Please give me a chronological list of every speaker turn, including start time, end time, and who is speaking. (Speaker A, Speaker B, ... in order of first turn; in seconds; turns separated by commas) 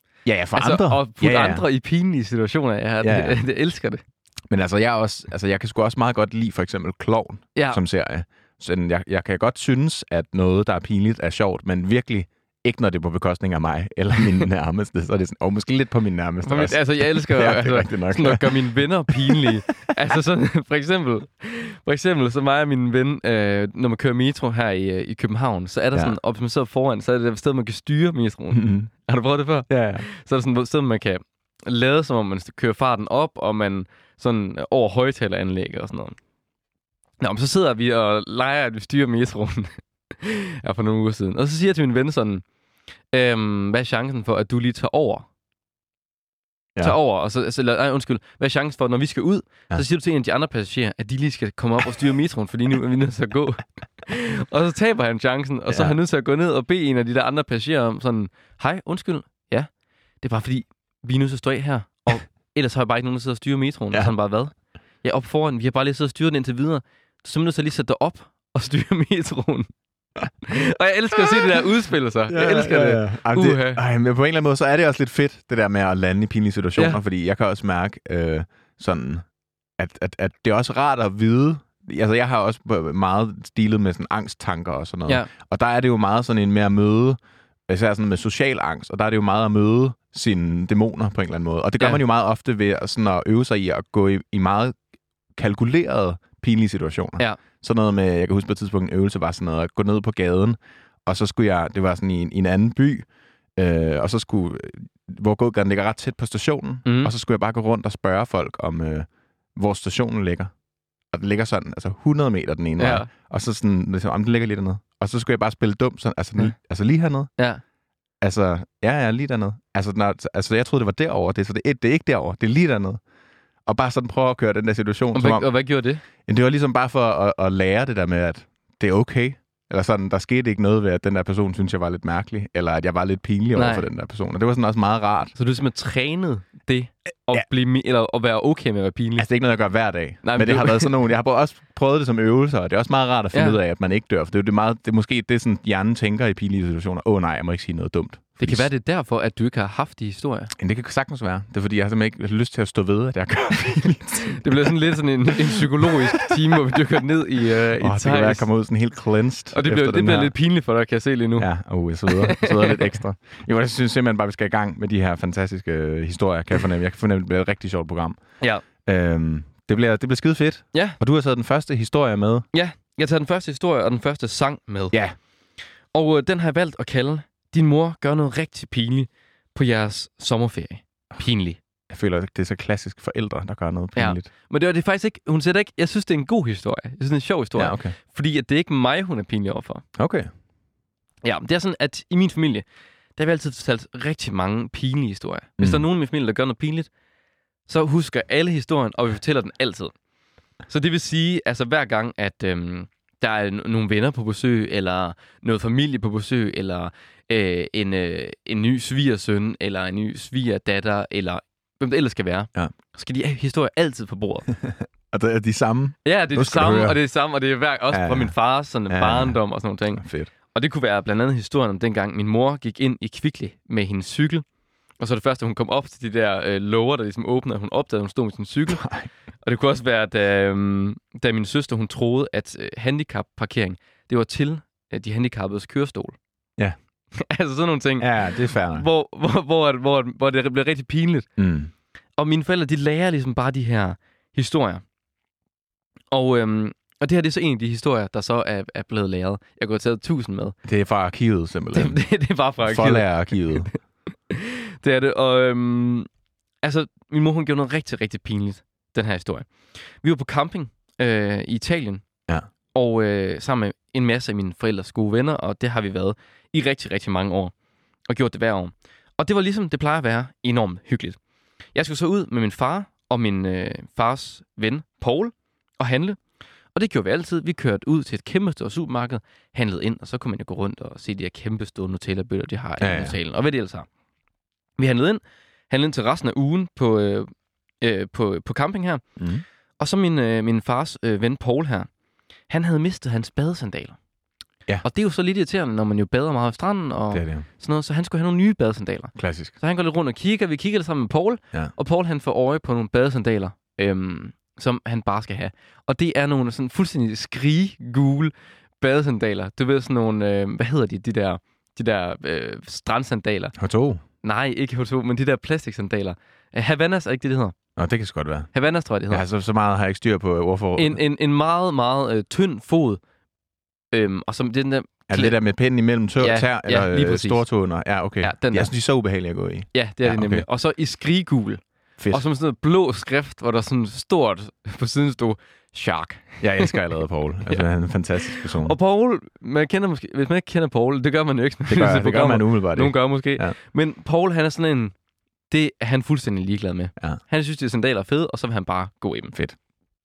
Speaker A: 0.2-1.6, Speaker B: 0.6-4.0, Speaker A: 3.0-3.4, Speaker A: 4.5-19.5, Speaker B: 7.5-7.8, Speaker B: 16.5-36.2, Speaker A: 28.5-28.9, Speaker A: 29.7-30.1, Speaker B: 37.2-42.4, Speaker B: 43.1-45.3, Speaker B: 46.8-59.7, Speaker A: 55.7-56.0, Speaker B: 60.2-69.7, Speaker B: 70.4-73.8, Speaker A: 72.3-79.2, Speaker A: 79.8-94.8, Speaker A: 95.3-110.5, Speaker B: 106.9-107.1, Speaker A: 111.1-117.3, Speaker B: 112.8-113.1, Speaker B: 117.4-117.6, Speaker A: 118.2-123.0, Speaker A: 123.7-125.5, Speaker B: 125.1-126.0, Speaker A: 126.2-135.3, Speaker B: 133.6-133.9, Speaker B: 135.4-139.3, Speaker A: 139.2-148.7, Speaker B: 140.2-140.9, Speaker B: 148.4-150.5, Speaker A: 150.6-156.6, Speaker B: 154.3-158.5, Speaker A: 157.8-160.3, Speaker B: 159.5-161.5, Speaker A: 161.4-168.2, Speaker B: 162.1-162.9, Speaker A: 168.8-172.5, Speaker B: 170.7-171.0, Speaker B: 172.5-175.0, Speaker B: 175.9-181.6, Speaker A: 181.9-184.3, Speaker B: 184.0-189.8, Speaker A: 187.6-188.0, Speaker A: 190.0-190.3, Speaker B: 191.2-192.7, Speaker B: 193.2-196.9, Speaker B: 197.7-199.9, Speaker B: 200.7-214.5, Speaker A: 214.6-217.0, Speaker B: 216.1-224.4, Speaker A: 217.9-218.3, Speaker A: 218.9-219.4, Speaker A: 220.0-220.3, Speaker B: 225.0-228.9, Speaker A: 228.7-229.1, Speaker B: 229.4-236.2, Speaker B: 237.2-238.1, Speaker A: 238.0-238.9, Speaker B: 238.7-241.3, Speaker A: 241.4-241.7, Speaker B: 242.2-244.8, Speaker B: 246.1-250.6, Speaker A: 250.7-252.0, Speaker B: 251.7-253.5, Speaker A: 252.6-253.7, Speaker B: 254.3-256.1, Speaker B: 256.6-262.0, Speaker B: 262.7-267.5, Speaker B: 268.1-271.2, Speaker B: 271.7-276.2, Speaker B: 276.8-283.9, Speaker A: 282.8-283.2, Speaker B: 284.8-287.3, Speaker B: 287.8-289.0, Speaker A: 289.2-289.4, Speaker B: 289.8-291.9, Speaker B: 292.5-294.0, Speaker B: 294.8-313.5, Speaker A: 297.1-297.5, Speaker A: 299.2-299.5, Speaker A: 313.6-314.0, Speaker B: 314.2-317.6, Speaker A: 317.8-318.5, Speaker B: 318.5-319.2, Speaker A: 319.1-321.0, Speaker B: 320.8-323.0, Speaker B: 323.9-325.4, Speaker A: 325.1-330.5, Speaker B: 326.2-327.4, Speaker B: 328.2-328.7, Speaker B: 329.7-336.8, Speaker A: 332.0-332.2, Speaker A: 336.4-338.8, Speaker B: 338.3-344.9, Speaker A: 341.7-343.6, Speaker B: 345.5-349.3